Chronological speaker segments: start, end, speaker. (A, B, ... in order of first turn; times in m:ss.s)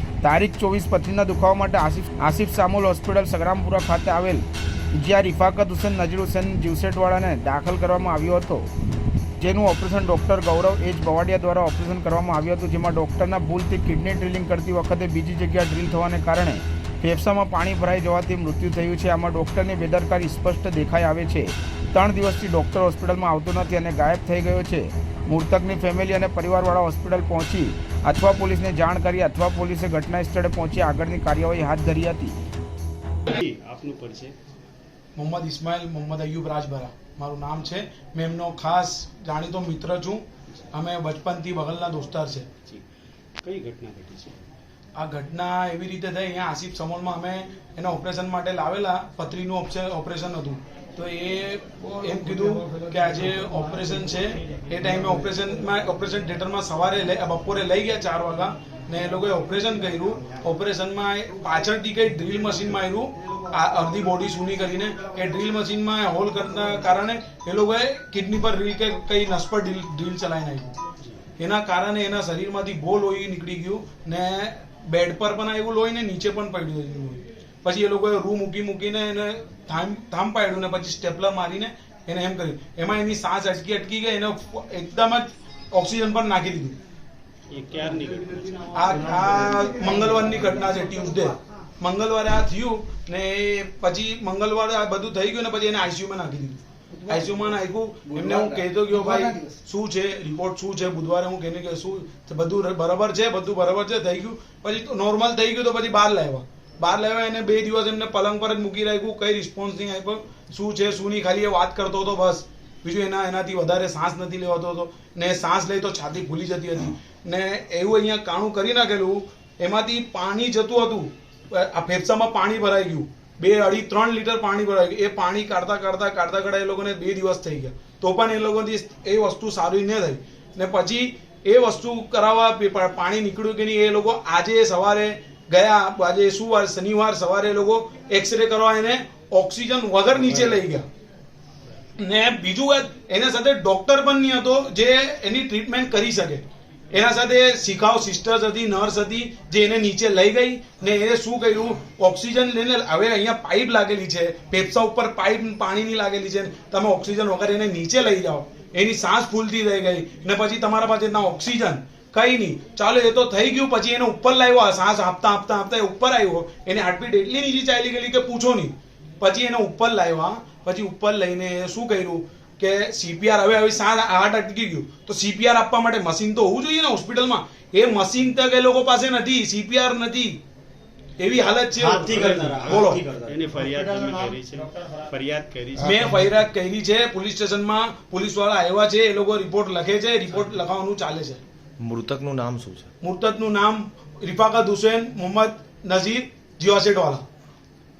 0:00.2-0:08.7 A
0:09.4-0:32.4 A
0:33.3-0:34.3 B
0:35.1-0:42.5 C
0:43.4-0:44.4 B
0:45.0-1:10.7 C
1:11.4-1:26.8 C
1:27.5-1:29.1 B
1:28.7-2:20.9 C
2:22.0-3:00.4 C
3:01.2-3:03.0 C
3:01.9-3:06.1 B
3:01.9-3:03.4 D
3:05.8-3:11.4 C
3:11.8-3:12.9 D
3:13.0-3:17.2 C